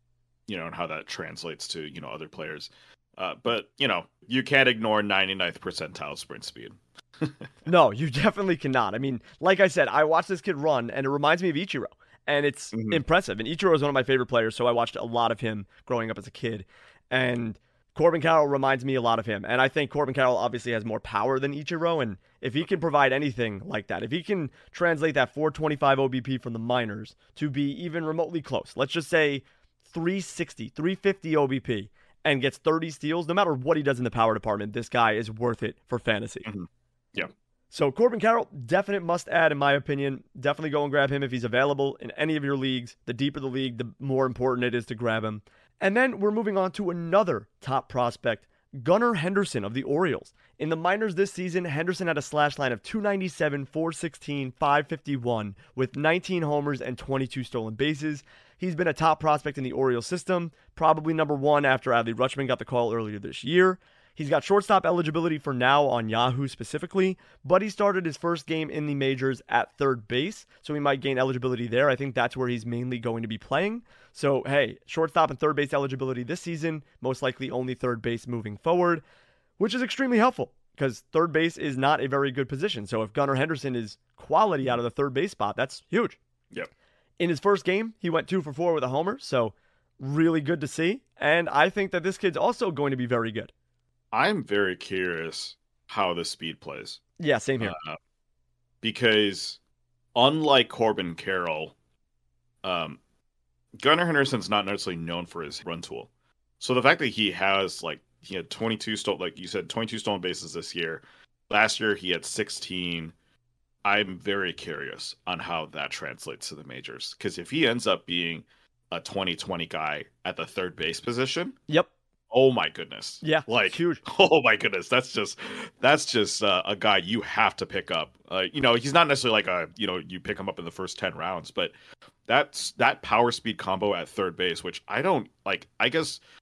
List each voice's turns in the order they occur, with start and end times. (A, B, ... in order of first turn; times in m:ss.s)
0:00.5-0:07.5 A
0:07.6-0:36.4 B
0:12.7-0:13.0 A
0:36.4-0:37.3 A
0:37.7-1:19.0 B
1:19.6-1:26.2 B
1:27.2-1:33.5 B
1:34.1-1:37.0 A
1:37.2-1:37.8 B
1:37.6-1:38.0 A
1:38.8-1:39.6 A
1:40.2-1:41.7 A
1:42.6-1:43.0 A
1:43.8-1:53.1 A
1:53.8-2:01.6 A
2:02.3-2:11.7 A
2:03.2-2:04.0 B
2:12.3-2:16.2 A